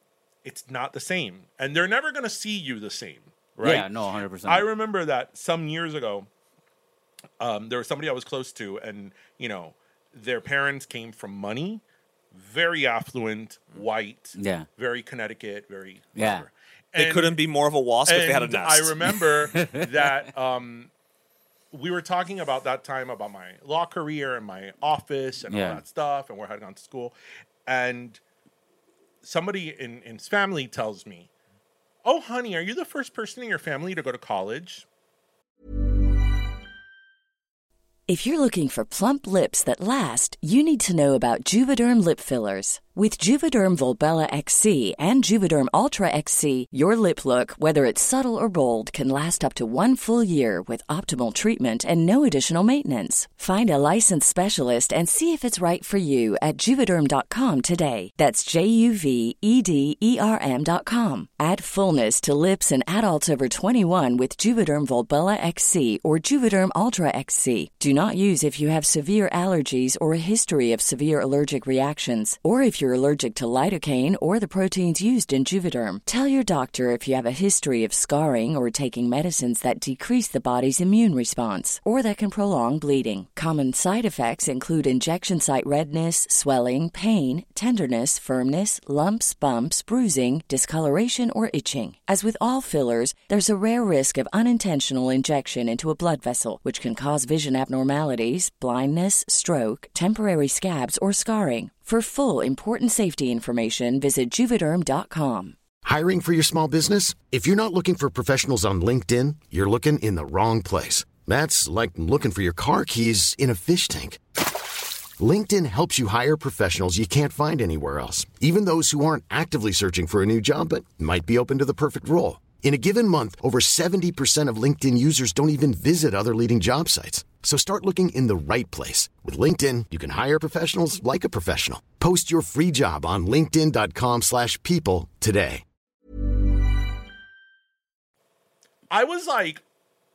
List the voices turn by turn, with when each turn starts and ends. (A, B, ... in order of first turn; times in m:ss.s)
0:00.4-0:03.9 A
0:03.6-0:04.7 B
0:04.4-0:06.3 A
0:07.4-0:17.4 A
0:14.4-0:14.7 B
0:16.2-0:16.5 B
0:17.0-0:18.9 C
0:18.0-0:20.9 A
0:19.5-0:20.3 B
0:21.7-0:27.1 A
0:25.5-0:25.8 B
0:27.6-0:28.2 A
0:29.2-0:31.3 A
0:32.0-0:34.8 A
0:38.1-1:45.6 D
1:45.8-1:54.2 E
1:55.2-2:15.6 E
2:18.9-2:19.6 A